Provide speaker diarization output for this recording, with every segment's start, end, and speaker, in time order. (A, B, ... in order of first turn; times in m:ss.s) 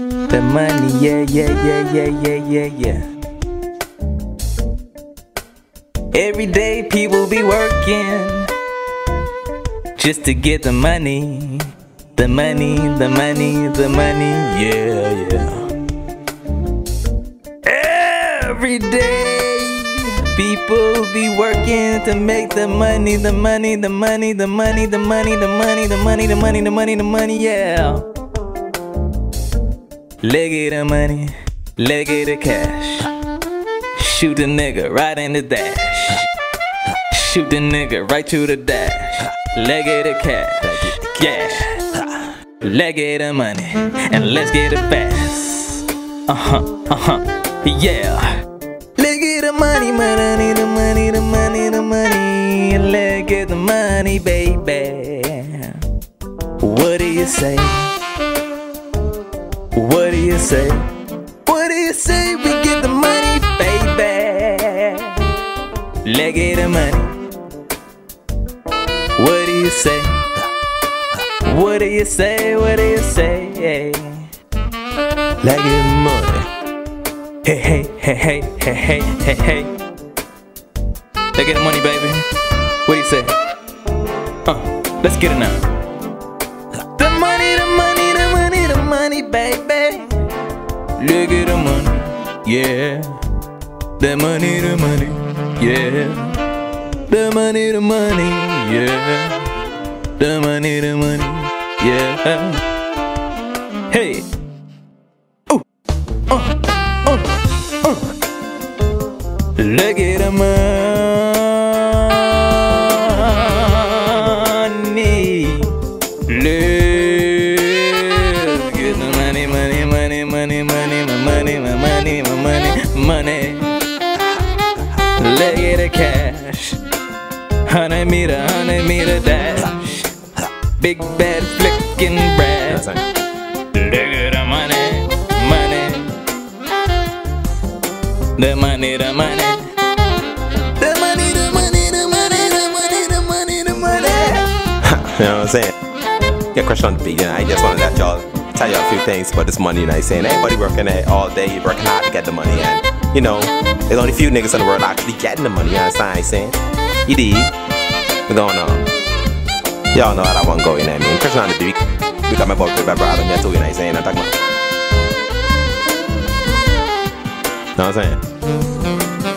0:00.3-0:03.1 A
0:06.1-0:08.5 A
0:10.0-0:15.7 A
0:17.6-0:28.1 A
0:30.2-0:33.1 A
0:34.0-0:36.3 A
0:37.1-0:42.1 A
0:40.7-0:41.0 B
0:42.6-0:48.4 A
0:49.0-0:55.8 A
0:56.6-0:57.9 A
0:59.7-1:00.9 A
1:01.4-1:05.2 A
1:06.0-1:07.2 A
1:09.2-1:10.3 A
1:11.4-1:14.3 A
1:15.4-1:16.4 B
1:17.4-1:19.8 A
1:21.3-1:22.2 A
1:22.8-1:23.4 A
1:24.4-1:25.7 A
1:26.9-1:30.2 A
1:31.0-1:33.2 A
1:34.0-1:36.4 A
1:37.1-1:39.5 A
1:40.2-1:42.6 A
1:43.9-1:44.2 A
1:46.3-1:48.0 A
1:49.6-2:03.8 A
2:05.2-2:06.8 A
2:07.6-2:10.1 A
2:10.8-2:12.9 A
2:12.7-2:13.0 B
2:13.7-2:16.2 A
2:18.4-2:19.7 A
2:20.8-2:24.5 A
2:24.8-2:25.7 B
2:26.5-2:37.5 B
2:38.3-2:38.9 B
2:39.9-2:44.4 B
2:47.8-2:48.2 B